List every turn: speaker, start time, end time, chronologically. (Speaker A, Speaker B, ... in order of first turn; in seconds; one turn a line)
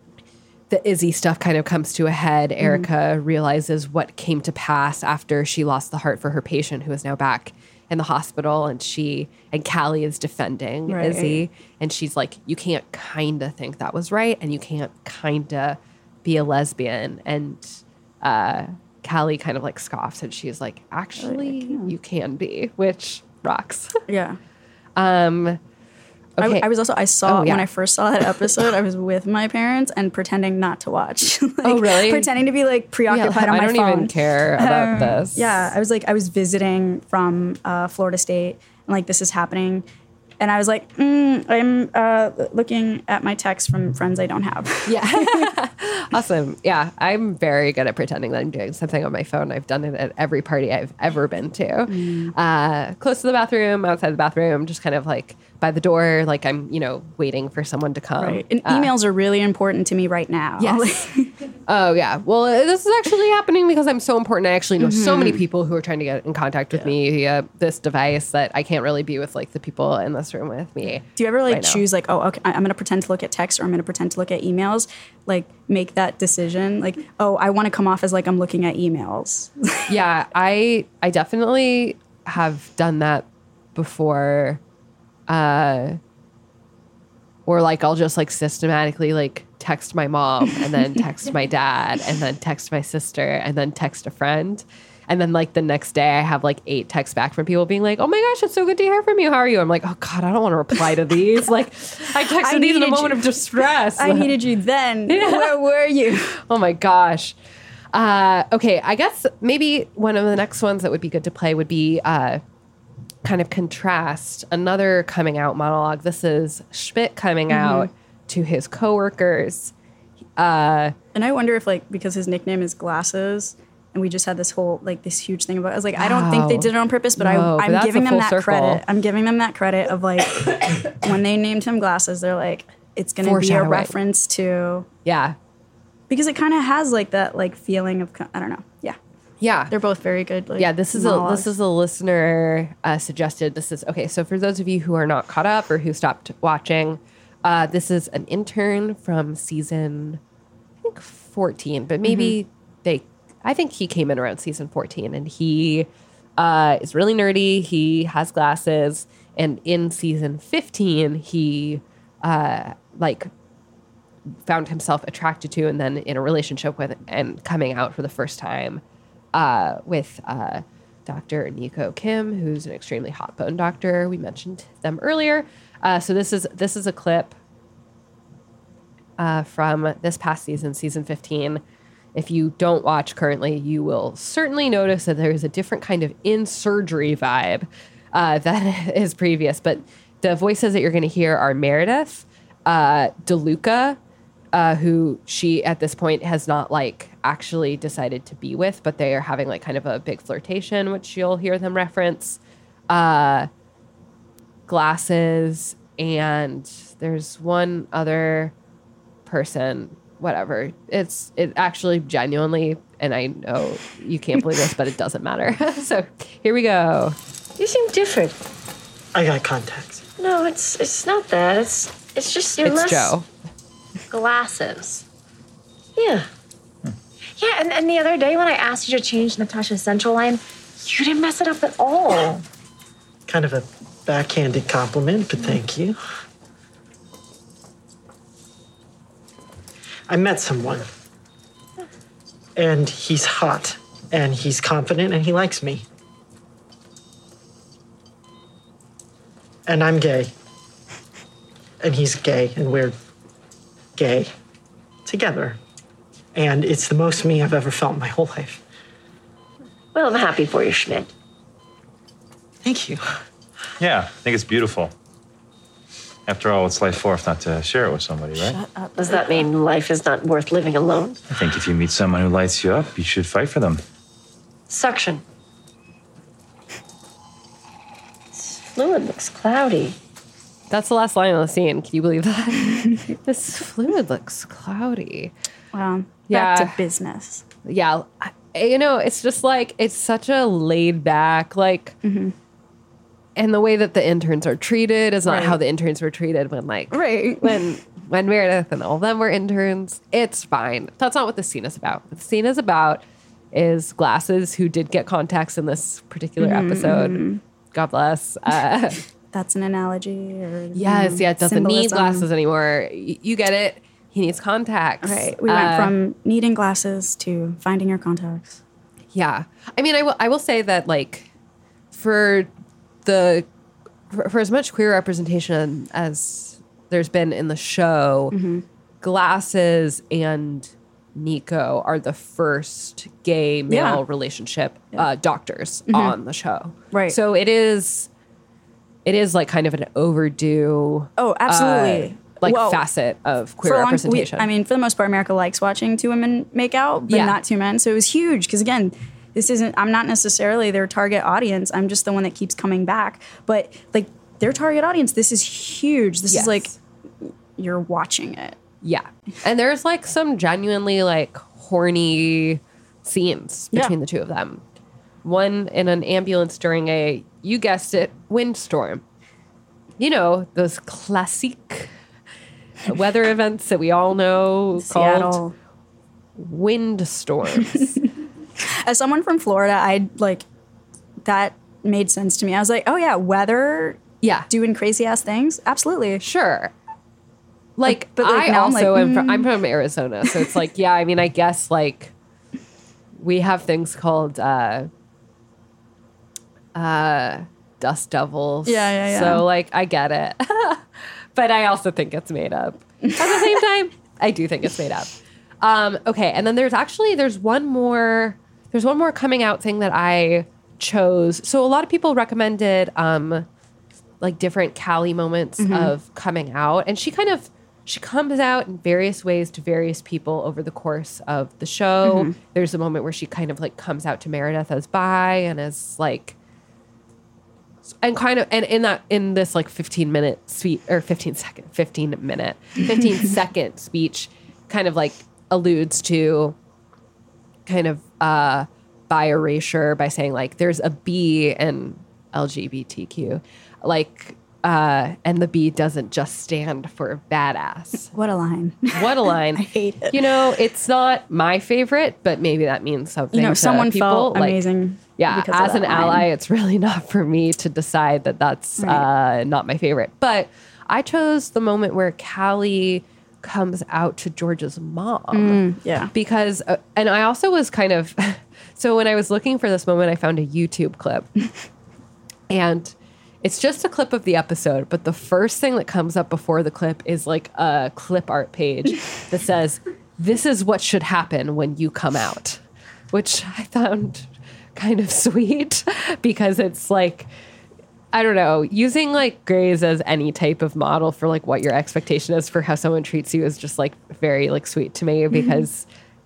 Speaker A: 0.7-24.0
Speaker B: 2.6-2.9
Speaker B: 10.9-11.4
Speaker B: 21.2-21.9
Speaker B: 24.1-24.4
Speaker A: 25.0-25.6
Speaker A: 26.4-26.7
Speaker B: 26.4-39.9
Speaker A: 27.2-27.7
Speaker A: 31.6-32.3
Speaker A: 33.1-35.7
Speaker B: 40.4-45.5
Speaker A: 44.9-58.9
Speaker B: 51.9-52.3
Speaker B: 58.2-61.3
Speaker A: 60.6-60.9
Speaker A: 61.7-71.8
Speaker B: 64.8-65.4
Speaker B: 71.2-79.9
Speaker A: 79.9-84.6
Speaker A: 85.3-86.0
Speaker A: 87.5-104.3
Speaker B: 102.3-106.3
Speaker A: 105.1-107.4
Speaker A: 107.9-112.4
Speaker A: 113.2-119.7
Speaker B: 117.5-117.9
Speaker A: 120.4-121.0
Speaker B: 121.1-134.9
Speaker A: 126.0-128.8
Speaker A: 133.2-133.9
Speaker A: 135.1-135.4
Speaker B: 136.1-139.0
Speaker A: 139.4-139.7
Speaker B: 139.7-141.5
Speaker A: 140.6-150.2
Speaker A: 150.8-163.3
Speaker B: 152.0-152.4
Speaker A: 164.5-168.8
Speaker A: 169.3-177.4
Speaker A: 179.2-181.6
Speaker A: 182.2-194.0
Speaker A: 194.5-203.5
Speaker A: 204.7-208.5
Speaker A: 209.3-217.2
Speaker C: 217.6-218.4
Speaker D: 219.1-220.0
Speaker C: 220.2-223.2
Speaker A: 222.6-223.3
Speaker C: 224.1-225.0
Speaker C: 226.0-226.2
Speaker C: 227.4-232.4
Speaker D: 233.3-236.0
Speaker D: 240.1-240.9
Speaker D: 242.6-245.8
Speaker D: 249.7-250.3
Speaker D: 251.8-253.0
Speaker D: 254.0-254.3
Speaker D: 255.1-255.6
Speaker D: 256.4-258.6
Speaker C: 259.9-261.1
Speaker D: 262.6-263.1
Speaker E: 263.8-264.9
Speaker E: 266.3-268.6
Speaker C: 268.9-271.2
Speaker E: 271.3-273.8
Speaker C: 274.7-275.2
Speaker C: 278.3-280.0
Speaker A: 280.7-285.3
Speaker B: 282.7-283.1
Speaker B: 285.7-287.4
Speaker A: 286.3-286.8
Speaker A: 287.6-292.0
Speaker B: 292.0-292.3
Speaker A: 293.4-309.0
Speaker B: 295.2-295.6
Speaker B: 296.9-297.7
Speaker B: 306.4-307.4
Speaker B: 309.3-312.3
Speaker A: 310.8-315.9
Speaker B: 315.0-318.6
Speaker A: 319.1-321.3
Speaker A: 321.9-322.5
Speaker A: 323.1-323.5
Speaker A: 324.1-328.4
Speaker B: 328.3-328.6
Speaker A: 329.0-338.1
Speaker B: 333.7-334.0
Speaker B: 335.9-336.1
Speaker B: 336.9-337.2
Speaker A: 339.1-344.5
Speaker B: 341.2-342.8
Speaker B: 343.6-356.7
Speaker A: 347.1-347.4
Speaker A: 356.3-356.8
Speaker B: 357.3-358.6
Speaker A: 358.8-364.6
Speaker A: 365.2-369.0
Speaker A: 370.0-371.9
Speaker A: 372.9-375.4
Speaker B: 374.8-375.6
Speaker A: 376.4-378.0
Speaker B: 377.6-377.9
Speaker B: 378.6-380.5
Speaker B: 381.2-386.2
Speaker A: 384.2-384.5
Speaker A: 386.2-386.7
Speaker A: 387.8-392.1
Speaker B: 387.9-389.5
Speaker A: 393.2-394.9
Speaker A: 396.8-413.5
Speaker B: 398.7-399.4
Speaker B: 403.1-403.4
Speaker A: 414.2-426.4
Speaker B: 415.6-415.9
Speaker B: 422.0-422.4
Speaker A: 428.0-436.6
Speaker A: 437.7-448.1
Speaker B: 448.1-450.2
Speaker A: 448.9-454.6
Speaker B: 453.3-456.3
Speaker A: 455.2-471.3
Speaker B: 458.8-459.1
Speaker B: 465.3-466.1
Speaker A: 472.5-487.3
Speaker A: 488.1-495.9
Speaker B: 495.3-495.6